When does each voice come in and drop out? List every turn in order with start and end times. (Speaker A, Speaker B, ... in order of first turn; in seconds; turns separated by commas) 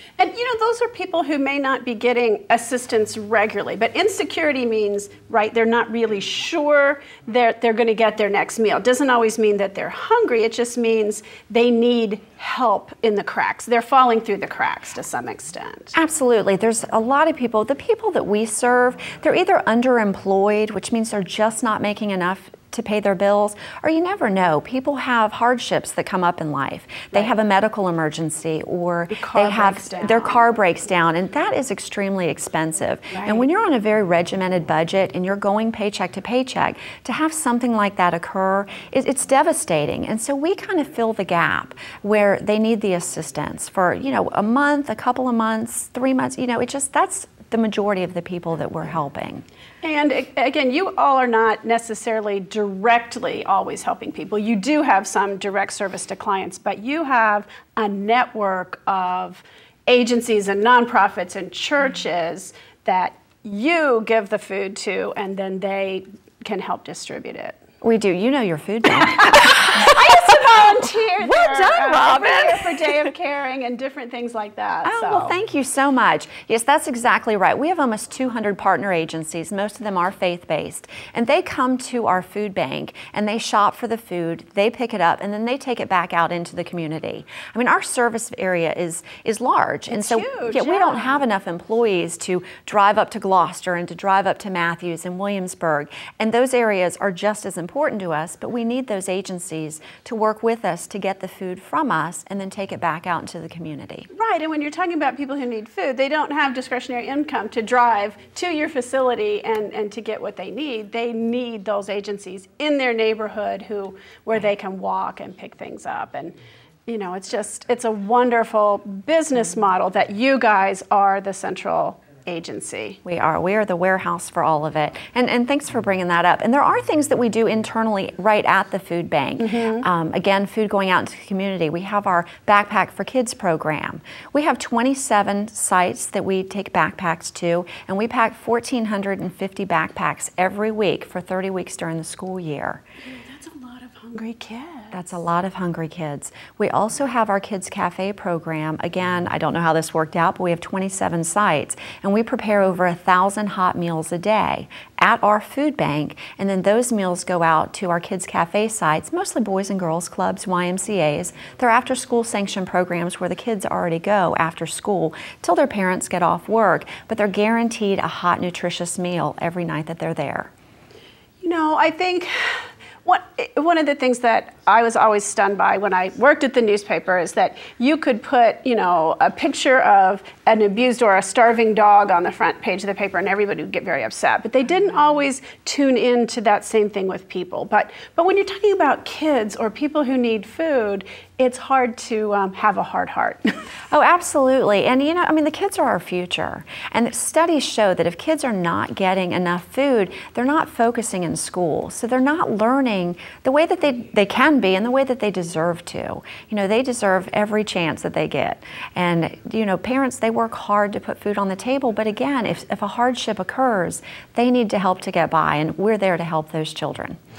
Speaker A: 0.2-15.9, Speaker B: 15.9-49.4, Speaker A: 29.1-30.5, Speaker A: 33.1-33.4, Speaker A: 49.8-67.6, Speaker B: 67.8-70.3, Speaker A: 69.1-75.3, Speaker B: 71.2-72.6, Speaker B: 74.8-104.1, Speaker A: 89.9-91.2, Speaker A: 104.1-116.3, Speaker A: 116.9-123.0, Speaker B: 123.0-142.8, Speaker A: 129.4-129.8, Speaker A: 143.1-145.0, Speaker B: 144.9-170.5, Speaker A: 171.4-193.5, Speaker B: 193.9-217.2